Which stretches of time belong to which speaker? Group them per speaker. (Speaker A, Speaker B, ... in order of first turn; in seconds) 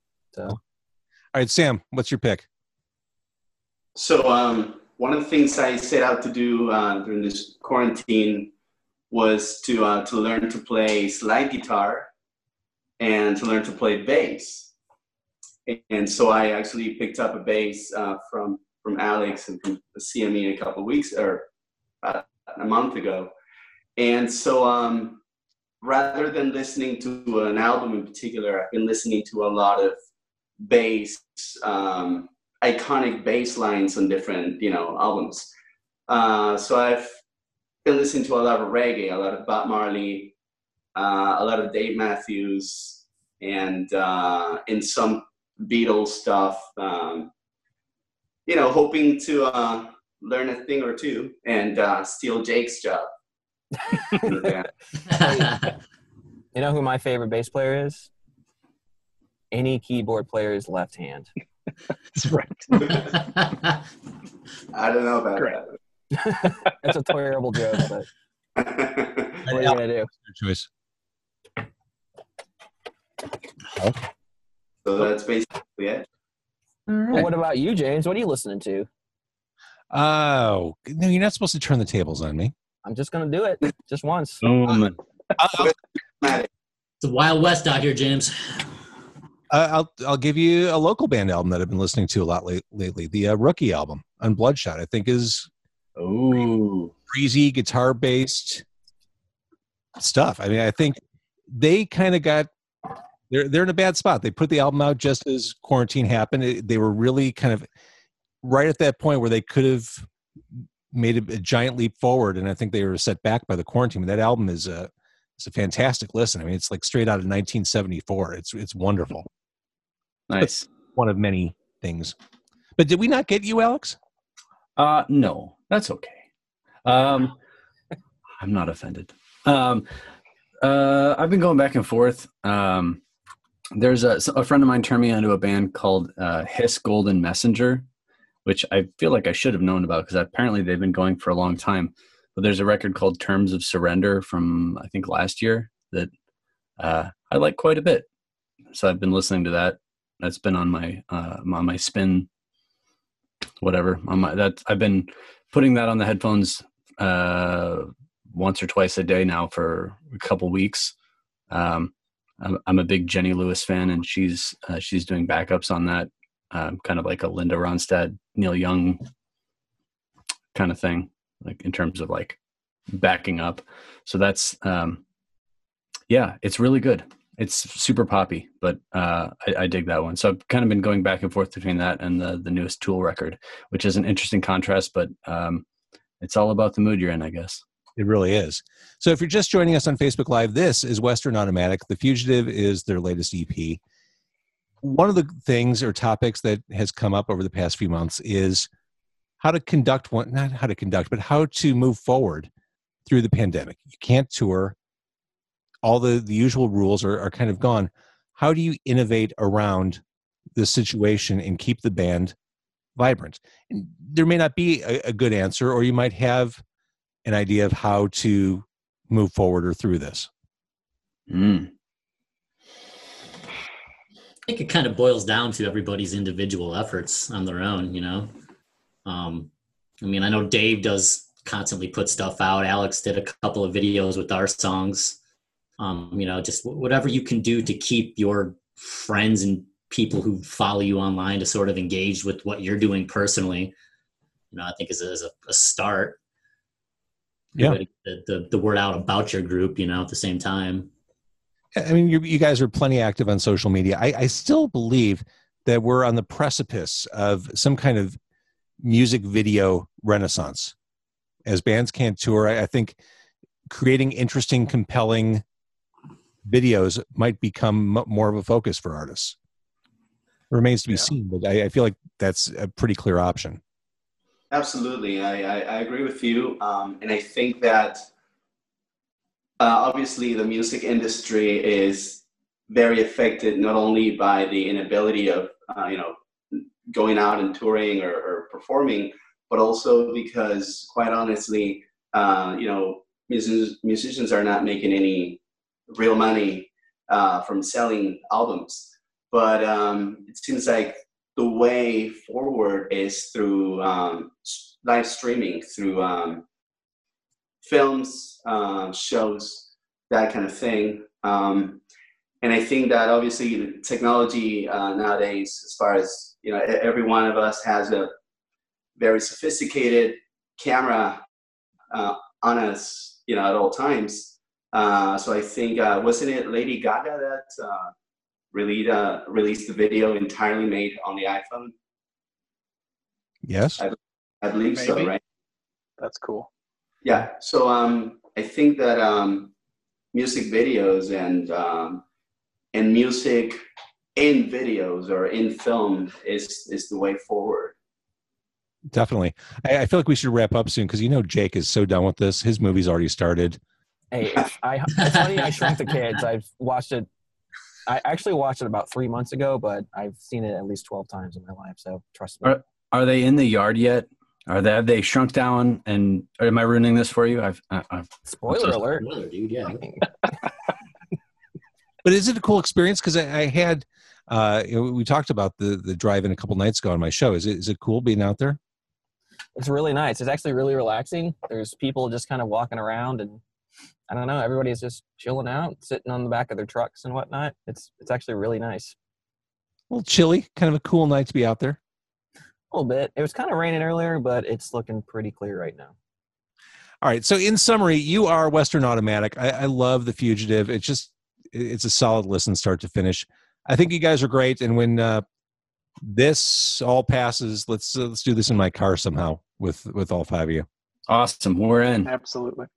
Speaker A: 0.3-0.6, 55.1-55.5, 56.5-58.1, 59.5-61.3, 66.1-68.1, 69.5-70.1, 77.1-78.9, 82.8-84.4, 354.1-357.1, 357.9-362.6, 368.3-369.1, 379.6-383.4, 384.1-388.9, 392.7-395.9
Speaker B: 1.3-2.5, 69.5-70.7, 79.9-82.5, 85.4-85.7, 89.5-95.5, 97.1-98.6, 100.0-101.0, 101.5-102.5, 103.3-107.7, 108.4-110.1, 110.9-119.3, 120.4-122.1, 122.8-124.0, 188.0-193.8, 194.8-198.7, 199.4-202.5, 203.1-204.8, 205.8-210.0, 210.6-212.3, 212.9-216.6, 217.2-220.3, 251.8-258.2, 258.8-260.8, 261.4-263.0, 263.7-265.4, 266.4-269.4, 270.5-273.6, 333.4-333.8, 348.9-353.6, 372.0-378.6, 389.9-391.8, 397.0-405.2, 406.0-410.6
Speaker C: 3.9-8.5, 9.1-12.1, 13.0-14.7, 15.7-21.5, 22.0-23.3, 24.0-25.2, 25.8-29.9, 30.6-35.5, 36.1-37.1, 37.9-40.3, 40.9-47.3, 48.5-53.1, 54.2-54.7, 64.7-65.7, 68.6-69.4, 74.8-76.0, 85.5-86.5, 274.5-278.0, 279.6-306.4, 307.6-311.8, 312.4-318.1, 319.0-321.2, 321.9-327.9, 328.5-331.7, 333.8-335.2, 337.0-339.5, 340.1-342.0, 342.7-343.6, 344.1-347.8
Speaker D: 62.1-63.1, 334.7-335.1, 336.0-336.5, 412.1-412.7
Speaker E: 76.9-77.2, 84.4-85.0, 96.0-96.9, 120.3-120.7, 124.8-126.2, 126.8-127.4, 128.4-129.9, 130.6-133.0, 133.7-137.9, 138.4-146.1, 146.8-148.1, 148.7-152.3, 153.6-160.9, 161.5-169.0, 170.5-172.4, 172.9-175.0, 176.1-185.6, 186.2-187.6, 221.3-221.7, 362.4-368.1, 411.1-412.1
Speaker F: 87.0-88.6, 224.5-228.3, 229.1-229.5, 230.0-235.2, 235.8-243.7, 244.5-246.2, 247.6-250.9, 368.5-369.9